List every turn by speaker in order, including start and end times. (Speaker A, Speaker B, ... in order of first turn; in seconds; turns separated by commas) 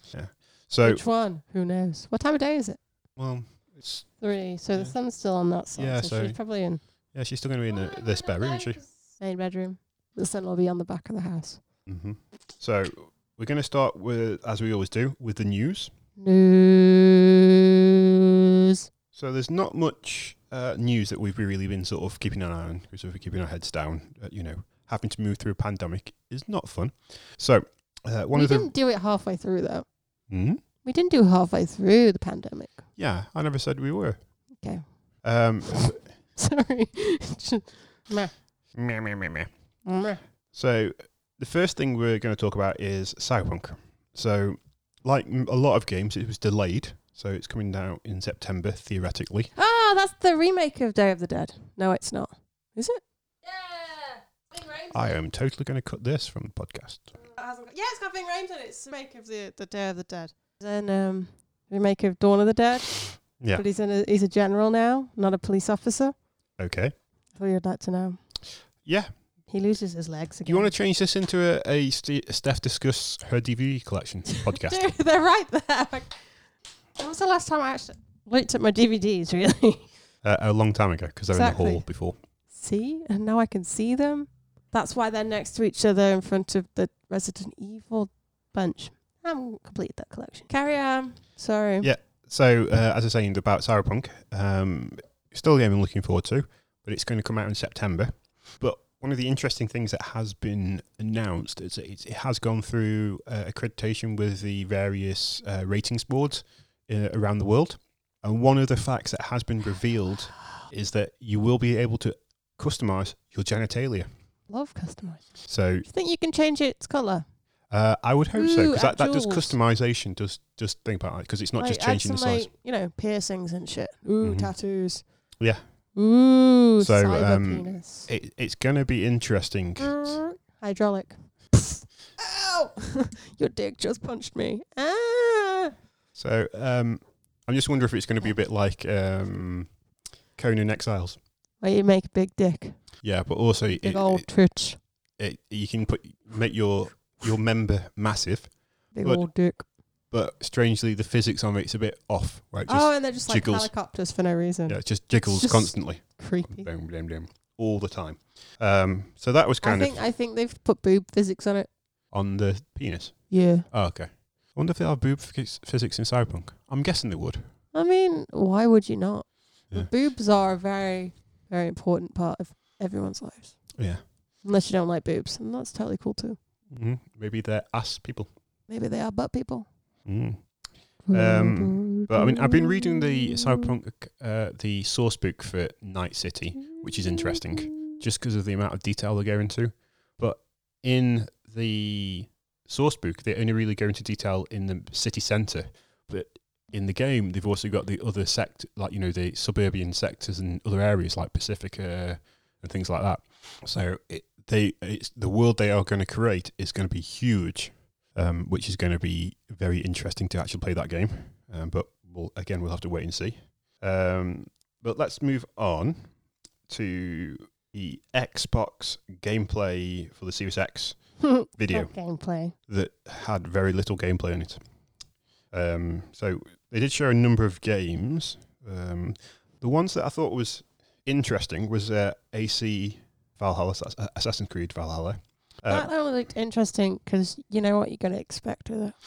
Speaker A: 0.1-1.0, Speaker B: 0.8-2.8, Speaker A: 3.2-4.1, Speaker B: 4.2-6.8, Speaker A: 5.8-6.4, Speaker A: 7.1-8.8, Speaker B: 7.7-11.6, Speaker A: 11.8-15.9, Speaker B: 16.2-18.9, Speaker A: 19.1-28.7, Speaker B: 28.3-29.8, Speaker A: 30.3-30.6, Speaker B: 30.8-32.8, Speaker A: 33.0-34.2, Speaker B: 34.6-34.9, Speaker A: 35.2-36.0, Speaker B: 35.7-38.4, Speaker A: 38.8-39.5, Speaker B: 39.8-40.2, Speaker A: 40.5-49.5, Speaker B: 49.5-55.1, Speaker A: 54.9-57.1, Speaker B: 57.2-66.1, Speaker A: 66.6-66.9, Speaker B: 67.3-68.2, Speaker B: 69.5-70.7, Speaker A: 70.5-74.8, Speaker B: 74.3-76.1, Speaker B: 77.0-79.9, Speaker A: 80.2-82.1, Speaker B: 81.3-81.8, Speaker B: 82.5-91.9, Speaker A: 91.8-114.1, Speaker B: 114.5-115.2, Speaker A: 115.5-115.9, Speaker B: 115.9-117.2, Speaker A: 117.7-122.5, Speaker B: 118.3-119.6, Speaker B: 121.6-125.0, Speaker A: 124.2-124.5, Speaker B: 125.9-128.1, Speaker A: 126.8-130.2, Speaker B: 129.8-135.7, Speaker A: 136.1-139.7, Speaker A: 140.4-141.2, Speaker B: 141.6-142.8, Speaker A: 143.0-144.2, Speaker B: 143.8-144.8, Speaker A: 145.2-149.2, Speaker B: 148.9-149.6, Speaker A: 150.1-153.7, Speaker B: 152.7-156.7, Speaker A: 154.7-160.0, Speaker B: 159.6-161.7, Speaker A: 162.1-167.4, Speaker B: 163.3-163.7, Speaker B: 167.7-173.6, Speaker A: 173.8-174.0, Speaker B: 174.4-176.4, Speaker A: 176.7-178.3, Speaker B: 178.7-179.7, Speaker A: 180.1-180.4, Speaker B: 181.1-183.7, Speaker A: 181.1-216.1, Speaker B: 186.7-188.0, Speaker A: 216.7-221.0, Speaker B: 221.2-222.6, Speaker A: 221.5-221.9, Speaker A: 222.7-224.6, Speaker A: 225.5-235.9, Speaker B: 235.7-238.9